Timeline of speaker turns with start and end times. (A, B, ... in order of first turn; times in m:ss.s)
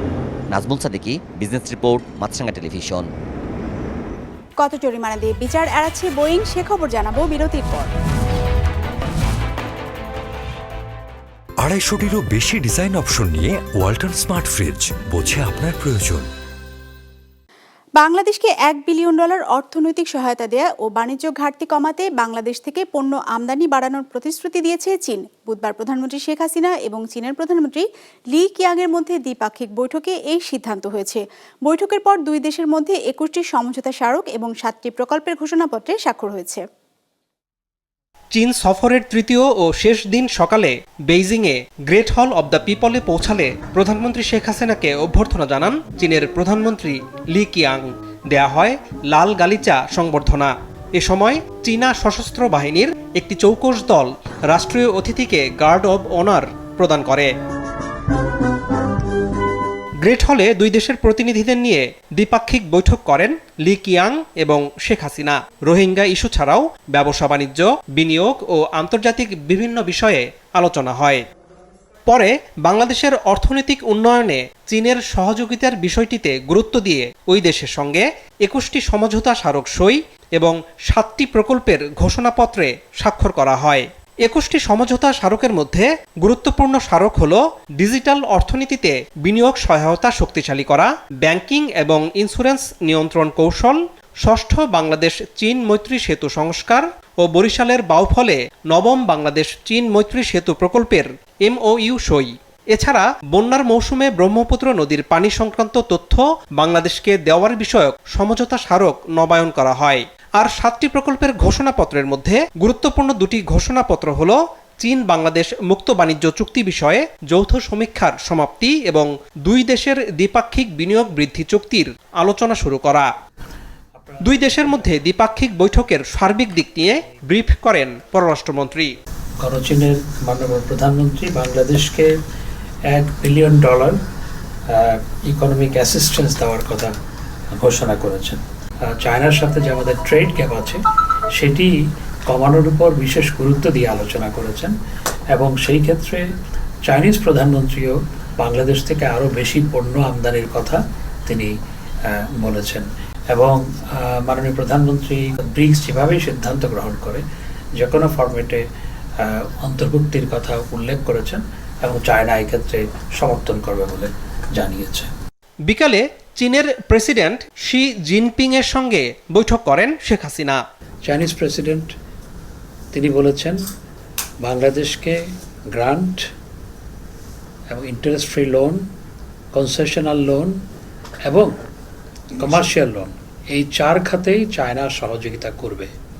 0:00.5-0:03.1 A
0:04.6-0:07.9 B
0:11.6-0:16.3 C
0:18.0-0:36.6 B
0:38.3-0:57.3 D
1:00.0-1:11.2 D
1:12.1-2:03.1 D
2:04.2-2:08.9 D
2:09.5-2:12.0 E
2:12.9-2:13.9 E
2:15.3-2:16.8 E
2:17.6-2:18.1 E
2:19.0-2:20.6 E
2:22.4-2:24.7 E
2:25.3-2:26.2 E
2:26.9-2:27.9 E
2:28.5-2:30.8 E
2:32.4-2:32.8 E
2:34.2-2:37.2 E
2:37.8-2:38.6 E
2:39.6-2:44.0 E
2:44.6-2:45.0 E
2:45.7-2:50.6 D
2:51.1-2:51.9 E
2:53.0-2:53.6 E
2:54.4-2:55.2 E
2:55.7-2:56.2 E
2:57.7-2:58.8 E
2:59.5-3:00.5 E
3:02.8-3:05.8 E